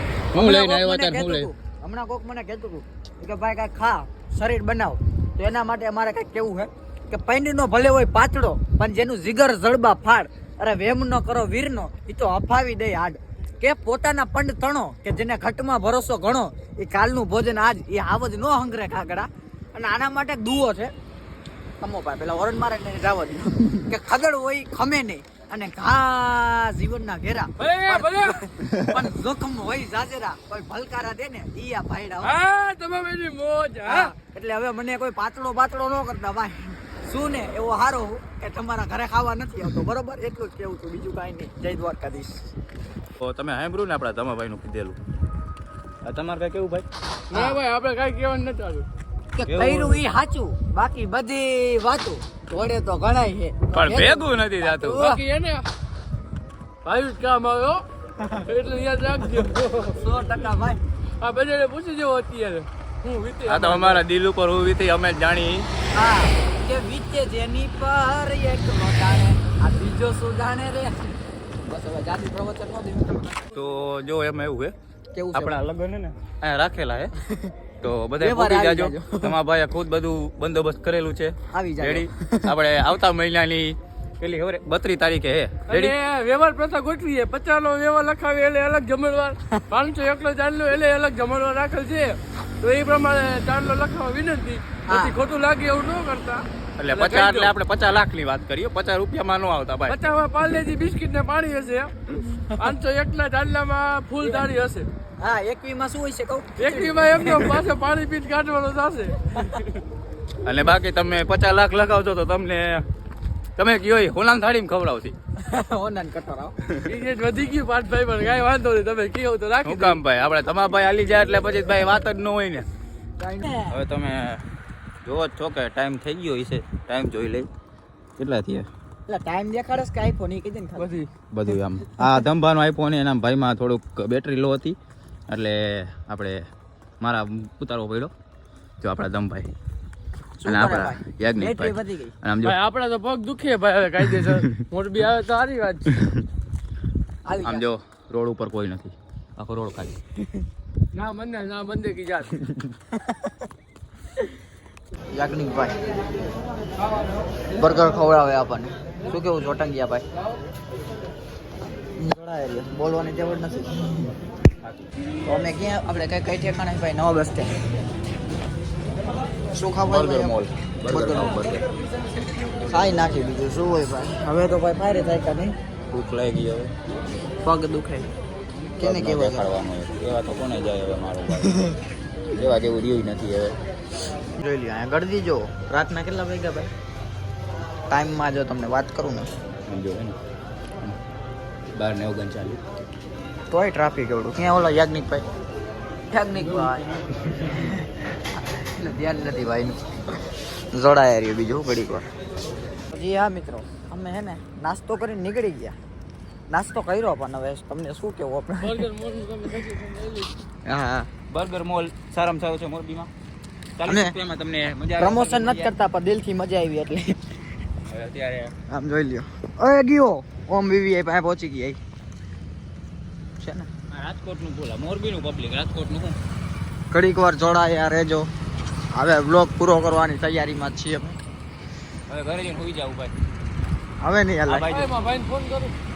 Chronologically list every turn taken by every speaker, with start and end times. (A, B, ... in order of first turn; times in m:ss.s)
0:00.3-0:20.9 A
0:00.3-0:01.5 B
0:21.8-0:32.4 A
0:27.6-0:28.4 C
0:32.2-0:34.1 C
0:33.8-0:42.5 A
0:43.2-0:45.0 B
0:46.0-0:46.8 B
0:47.3-0:48.8 C
0:47.3-0:47.6 A
0:49.3-0:55.2 A
0:49.4-0:50.0 B
0:53.7-0:55.0 B
0:54.9-0:55.6 C
0:56.8-0:57.8 C
0:58.2-0:58.4 A
0:58.4-1:00.0 C
0:59.9-1:00.8 A
1:01.2-1:04.0 C
1:03.5-1:05.7 B
1:05.9-1:11.0 A
1:11.6-1:13.5 A
1:13.5-1:14.7 B
1:15.1-1:15.6 A
1:15.3-1:17.1 B
1:17.2-1:17.5 A
1:17.8-1:25.9 B
1:18.2-1:19.4 A
1:21.5-1:22.5 A
1:25.7-1:37.5 C
1:34.8-1:35.1 A
1:36.8-1:40.0 B
1:39.9-1:41.9 C
1:42.2-1:42.5 A
1:42.5-1:44.9 C
1:45.2-1:47.6 A
1:46.6-1:49.8 C
1:50.4-1:52.8 B
1:53.6-1:55.2 B
1:55.4-1:56.6 A
1:56.6-1:56.9 B
1:56.8-2:00.0 C
1:59.6-2:02.7 B
2:03.2-2:03.8 A
2:03.7-2:04.4 B
2:05.0-2:07.5 B
2:08.2-2:08.7 B
2:09.1-2:11.0 A
2:10.8-2:11.1 C
2:11.3-2:14.8 B
2:15.3-2:16.5 B
2:17.0-2:18.1 B
2:18.8-2:19.5 B
2:20.4-2:22.2 A
2:20.4-2:22.6 B
2:22.4-2:26.0 C
2:24.2-2:24.6 B
2:27.2-2:27.7 A
2:27.4-2:30.0 B
2:30.9-2:32.4 C
2:35.1-2:35.7 A
2:37.6-2:40.0 A
2:42.0-2:44.1 A
2:45.2-2:47.5 A
2:49.5-2:50.4 A
2:49.8-2:51.6 B
2:50.9-2:51.4 A
2:52.6-2:55.5 A
2:55.9-2:56.7 B
2:57.4-2:58.1 A
2:58.8-2:59.6 A
2:58.8-3:01.6 B
3:01.4-3:01.8 A
3:02.3-3:03.6 B
3:04.4-3:06.7 A
3:07.9-3:09.3 A
3:09.7-3:10.2 B
3:11.8-3:12.6 B
3:13.5-3:15.2 A
3:16.1-3:17.9 A
3:18.5-3:20.2 A
3:20.7-3:22.1 A
3:22.9-3:25.8 A
3:26.5-3:28.9 A
3:28.6-3:30.3 C
3:30.6-3:31.1 A
3:31.3-3:33.1 B
3:33.8-3:35.7 B
3:33.8-3:34.1 A
3:35.0-3:37.2 A
3:37.8-3:38.5 B
3:38.7-3:41.8 A
3:43.4-3:43.7 A
3:43.9-3:46.2 B
3:46.9-3:48.3 A
3:48.9-3:51.2 A
3:52.1-3:53.2 B
3:54.0-3:54.7 A
3:54.5-3:54.9 B
3:54.7-3:55.7 C